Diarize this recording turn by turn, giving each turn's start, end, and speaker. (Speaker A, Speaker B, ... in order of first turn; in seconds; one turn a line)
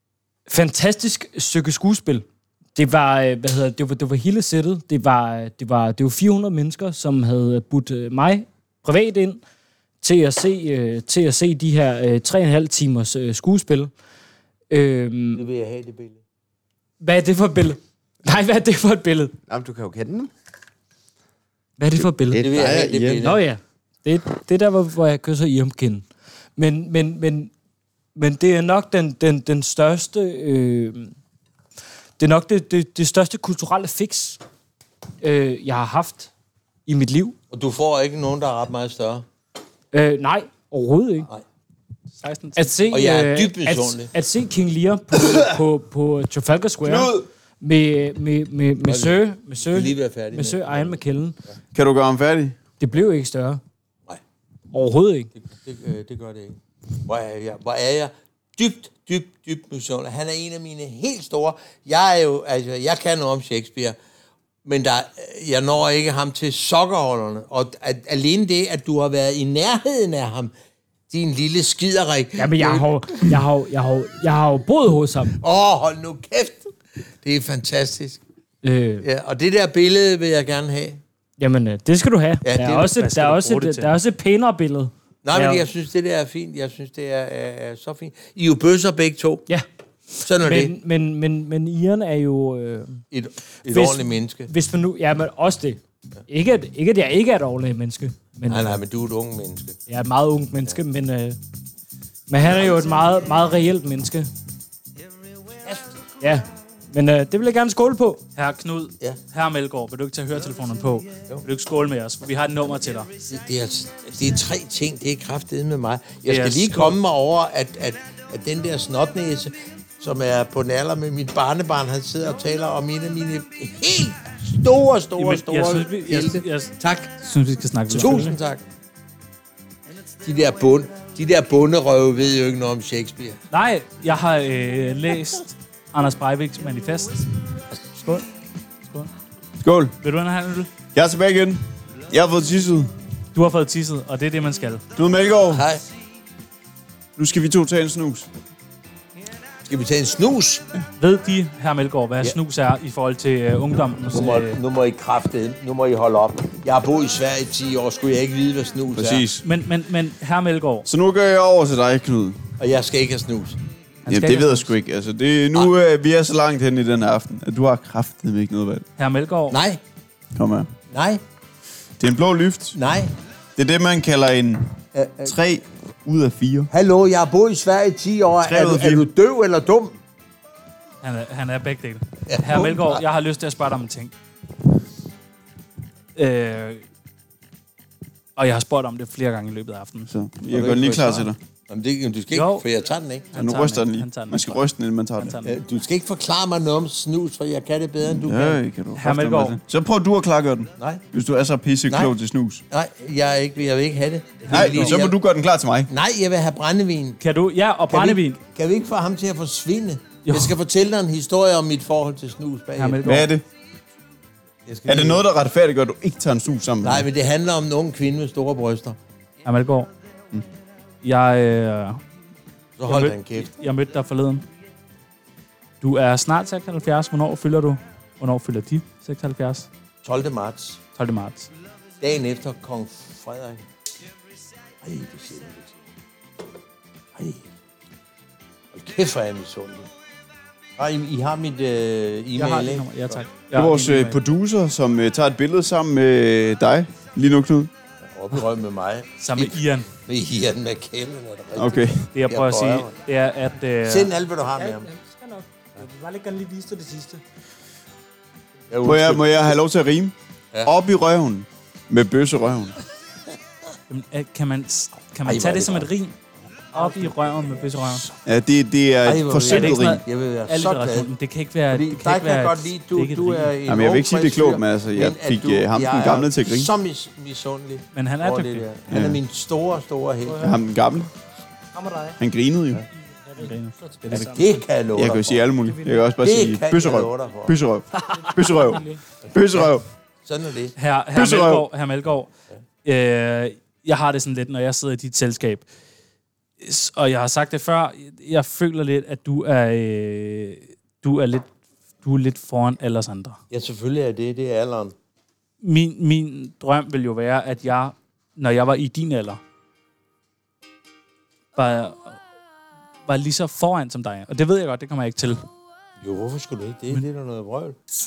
Speaker A: 0.5-9.4
Speaker A: 10.0-13.9
Speaker A: 14.7-15.4
Speaker B: 15.4-16.2
Speaker A: 17.0-19.3
Speaker C: 19.5-20.3
Speaker A: 21.8-22.5
Speaker C: 22.0-23.4
Speaker B: 22.4-23.4
Speaker A: 23.2-27.5
Speaker A: 28.1-31.1
Speaker A: 32.2-34.4
Speaker A: 35.2-36.3
Speaker A: 36.9-37.4
Speaker B: 37.5-39.2
Speaker A: 39.9-41.3
Speaker D: 42.2-42.8
Speaker A: 42.6-51.4
Speaker B: 42.9-44.1
Speaker B: 48.9-51.0
Speaker E: 51.7-52.6
Speaker A: 52.8-53.6
Speaker A: 54.7-55.3
Speaker B: 55.4-64.0
Speaker B: 64.6-70.5
Speaker B: 71.1-73.3
Speaker A: 72.4-75.4
Speaker B: 75.4-76.7
Speaker B: 77.2-78.2
Speaker A: 78.6-79.1
Speaker B: 79.0-81.0
Speaker A: 81.4-85.7
Speaker B: 82.4-82.9
Speaker D: 83.0-84.0
Speaker B: 85.2-89.5
Speaker A: 90.2-93.0
Speaker B: 90.2-90.7
Speaker B: 93.1-94.5
Speaker A: 93.7-98.8
Speaker B: 98.5-99.8
Speaker A: 99.9-101.4
Speaker A: 102.3-104.3
Speaker B: 102.4-102.7
Speaker B: 105.6-105.9
Speaker A: 106.2-108.2
Speaker D: 108.3-113.1
Speaker B: 113.3-127.1
Speaker D: 116.3-117.0
Speaker D: 125.2-128.3
Speaker B: 127.9-128.6
Speaker B: 130.2-133.4
Speaker D: 133.5-137.3
Speaker D: 137.9-138.2
Speaker E: 139.6-139.9
Speaker D: 140.0-140.7
Speaker E: 140.9-142.9
Speaker D: 143.3-144.8
Speaker E: 144.9-145.7
Speaker B: 145.5-145.8
Speaker E: 147.2-148.3
Speaker B: 149.7-150.6
Speaker D: 151.0-154.6
Speaker B: 154.1-159.2
Speaker E: 158.9-159.4
Speaker D: 159.4-160.9
Speaker E: 160.9-162.4
Speaker B: 162.6-163.6
Speaker E: 164.1-168.9
Speaker D: 164.1-164.7
Speaker D: 169.0-169.6
Speaker B: 169.5-169.8
Speaker E: 170.3-170.7
Speaker B: 170.9-171.2
Speaker E: 172.0-172.8
Speaker B: 172.8-173.1
Speaker E: 173.6-174.7
Speaker B: 174.9-175.3
Speaker E: 175.2-176.7
Speaker B: 176.7-180.0
Speaker E: 178.4-179.1
Speaker D: 181.0-184.1
Speaker B: 182.3-183.0
Speaker D: 186.2-186.8
Speaker D: 188.4-190.1
Speaker E: 190.1-191.4
Speaker B: 190.5-193.3
Speaker D: 192.3-192.7
Speaker D: 193.3-194.6
Speaker E: 193.3-195.4
Speaker D: 195.2-195.6
Speaker B: 195.4-198.6
Speaker E: 198.1-202.6
Speaker D: 198.9-199.6
Speaker B: 200.8-201.0
Speaker B: 202.7-205.2
Speaker D: 204.5-204.9
Speaker E: 204.5-205.9
Speaker B: 205.9-207.2
Speaker D: 207.2-208.4
Speaker B: 207.9-213.2
Speaker D: 210.2-210.6
Speaker D: 212.8-213.3
Speaker E: 213.0-213.4
Speaker B: 214.7-215.2
Speaker E: 214.9-217.1
Speaker B: 216.8-219.0
Speaker D: 219.4-219.9
Speaker D: 221.0-222.0
Speaker B: 222.8-223.5
Speaker D: 222.9-224.5
Speaker D: 225.8-229.7
Speaker B: 230.0-230.8
Speaker D: 230.9-231.5
Speaker B: 232.0-233.6
Speaker B: 234.8-235.8
Speaker B: 237.2-237.5
Speaker B: 238.7-239.9
Speaker B: 240.8-243.2
Speaker D: 242.4-244.2
Speaker E: 243.5-247.7
Speaker B: 248.0-252.9
Speaker D: 249.2-249.9
Speaker E: 251.6-252.1
Speaker D: 252.1-254.1
Speaker B: 253.9-254.9
Speaker A: 254.6-257.2
Speaker B: 258.7-259.6
Speaker E: 258.8-260.1
Speaker E: 260.6-262.8
Speaker D: 263.9-266.1
Speaker B: 265.3-265.9
Speaker B: 266.7-267.9
Speaker D: 266.7-268.1
Speaker E: 268.2-270.0
Speaker B: 269.1-271.1
Speaker D: 269.5-273.5
Speaker B: 271.7-280.6
Speaker E: 273.7-276.7
Speaker D: 277.9-278.6
Speaker E: 278.9-279.2
Speaker A: 280.3-280.6
Speaker E: 280.4-281.1
Speaker A: 281.7-282.2
Speaker E: 282.2-282.8
Speaker A: 283.2-284.4
Speaker D: 283.4-284.5
Speaker B: 284.1-285.5
Speaker E: 284.9-289.9
Speaker A: 285.6-286.1
Speaker B: 286.2-287.6
Speaker A: 288.1-289.0
Speaker B: 289.2-290.7
Speaker D: 290.8-292.3
Speaker E: 291.1-291.7
Speaker D: 292.8-295.6
Speaker D: 296.6-303.4
Speaker B: 303.5-304.9
Speaker D: 305.6-309.4
Speaker D: 311.6-312.2
Speaker D: 313.1-315.4
Speaker B: 316.0-317.8